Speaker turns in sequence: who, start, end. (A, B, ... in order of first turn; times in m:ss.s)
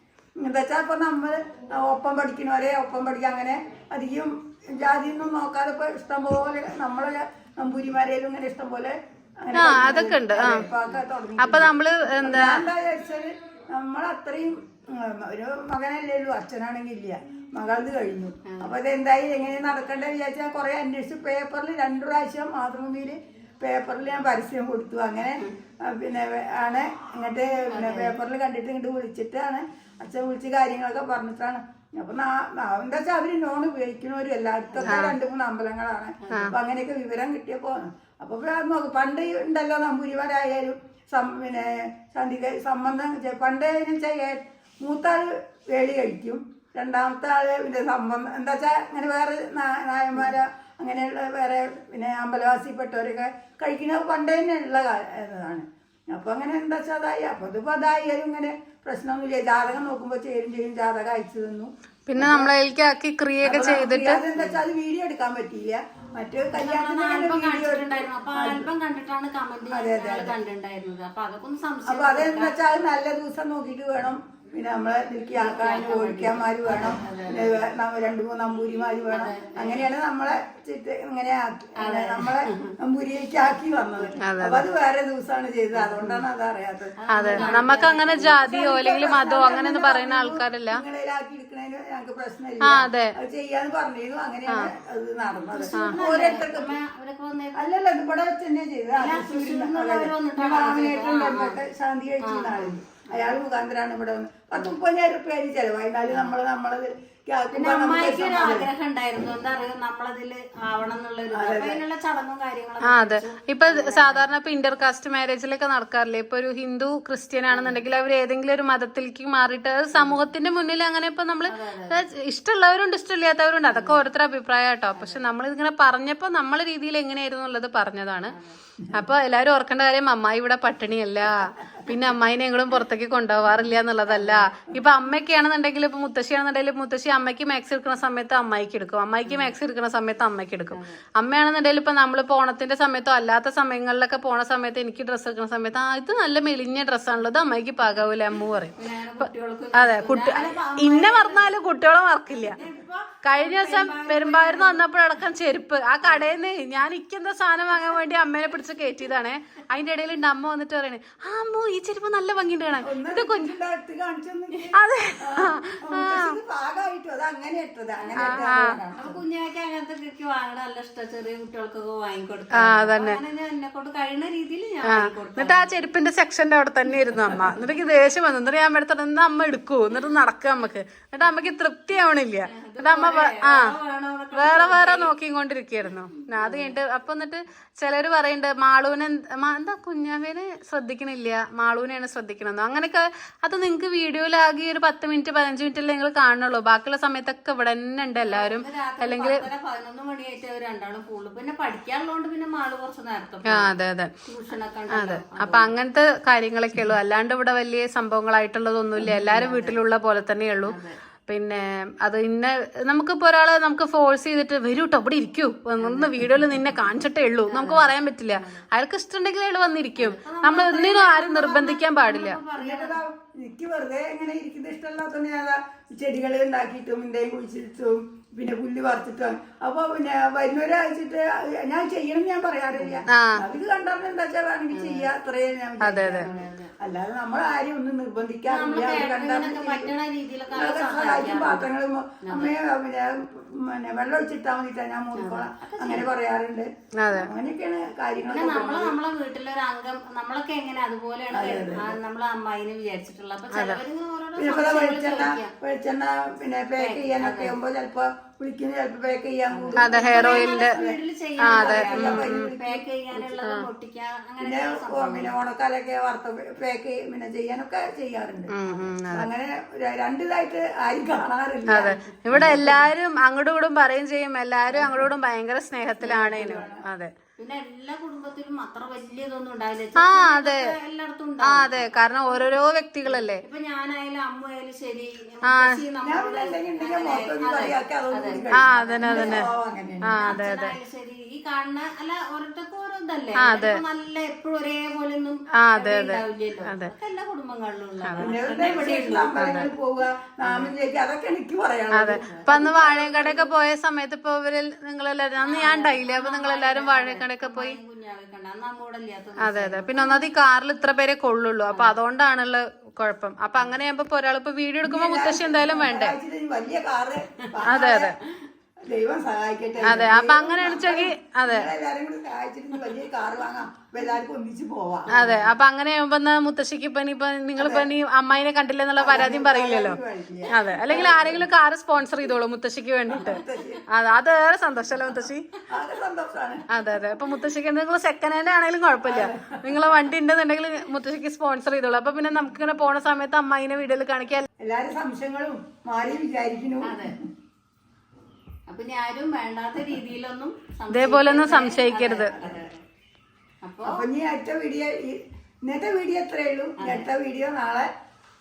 0:00.4-1:02.5 A
0:09.5-0:10.7 B
0:11.4-0:12.6 B
0:18.5-0:18.7 C
0:27.7-0:28.1 C
0:34.7-0:35.0 C
0:34.9-0:35.2 B
0:36.2-0:36.5 C
1:02.1-1:04.2 B
1:03.4-1:08.7 A
1:06.5-1:12.9 C
1:09.7-1:10.3 A
1:11.9-1:27.6 A
1:15.3-1:17.6 C
1:19.1-1:19.9 C
1:21.8-1:22.7 C
1:24.2-1:24.6 B
1:25.7-1:26.1 C
1:27.0-1:28.4 C
1:27.1-1:30.8 B
1:28.4-1:36.8 A
1:32.6-1:33.1 B
1:35.5-1:37.6 C
1:35.7-1:36.0 B
1:37.6-1:48.7 A
1:39.0-1:41.6 C
1:42.2-1:43.3 C
1:47.5-1:54.3 C
1:51.3-1:51.8 A
1:52.8-2:08.3 B
1:57.5-1:57.8 C
1:59.9-2:00.2 C
2:01.5-2:02.0 C
2:03.7-2:04.0 C
2:04.9-2:05.2 C
2:08.3-2:08.6 C
2:08.9-2:32.6 B
2:14.1-2:14.5 C
2:19.2-2:19.5 C
2:20.7-2:21.0 C
2:28.8-2:31.6 C
2:32.3-2:34.9 C
2:33.2-2:43.5 B
2:36.0-2:36.4 C
2:42.8-2:49.2 A
2:44.7-2:46.4 B
2:48.0-2:48.4 C
2:48.1-2:48.8 B
2:49.0-2:55.8 C
2:52.6-2:53.2 B
2:54.9-3:03.7 B
2:57.0-2:57.6 C
3:02.4-3:05.1 C
3:04.3-3:19.4 B
3:06.3-3:06.8 C
3:18.2-3:23.7 C
3:23.5-3:24.1 B
3:24.3-3:25.7 C
3:24.9-3:30.7 B
3:29.0-3:29.8 C
3:30.7-3:31.0 C
3:31.3-3:42.4 B
3:35.8-3:36.3 C
3:37.5-3:38.6 C
3:40.0-3:43.0 C
3:42.6-3:59.9 A
3:52.8-3:53.1 C
3:53.1-3:53.4 B
3:54.7-3:55.1 C
3:55.8-3:56.3 B
3:56.1-3:56.7 C
3:58.5-4:01.6 C
4:00.5-4:09.0 A
4:02.2-4:02.5 C
4:05.2-4:06.1 C
4:07.0-4:07.3 B
4:08.3-4:15.5 C
4:11.3-4:12.0 A
4:13.5-4:13.8 B
4:14.4-4:21.0 A
4:16.8-4:17.5 C
4:19.5-4:25.3 C
4:19.8-4:20.8 B
4:21.4-4:22.5 B
4:21.5-4:22.8 A
4:24.4-4:28.5 A
4:28.5-4:29.3 B
4:28.6-4:28.9 C
4:29.1-4:32.6 A
4:31.7-4:37.1 B
4:31.8-4:32.8 C
4:36.0-4:36.7 C
4:36.3-4:36.8 A
4:37.4-4:42.5 C
4:40.0-4:40.6 B
4:41.4-4:43.4 B
4:43.0-4:49.5 C
4:46.0-4:50.2 A
4:48.5-4:49.4 B
4:50.0-4:50.7 B
4:50.2-4:59.7 C
4:53.4-4:53.8 B
4:55.6-4:56.9 B
4:58.0-4:58.3 B
4:58.2-5:03.4 A
4:59.4-4:59.7 B
5:00.4-5:00.7 B
5:01.9-5:07.8 B
5:02.2-5:02.5 C
5:05.4-5:10.3 C
5:09.4-5:16.2 B
5:11.7-5:12.0 C
5:14.8-5:18.2 A
5:17.7-5:18.2 B
5:18.8-5:25.4 A
5:19.8-5:21.7 B
5:25.1-5:30.0 B
5:25.1-5:25.4 C
5:27.6-5:27.9 A
5:29.0-5:31.4 A
5:30.5-5:35.4 B
5:33.1-5:33.8 A
5:35.7-5:36.6 A
5:36.7-5:44.5 B
5:39.0-5:39.8 A
5:44.6-5:47.2 A
5:46.8-5:47.1 C
5:48.7-5:52.8 C
5:50.9-5:52.3 B
5:52.3-5:52.6 A
5:53.6-5:54.0 C
5:53.8-5:57.9 A
5:56.8-5:57.1 C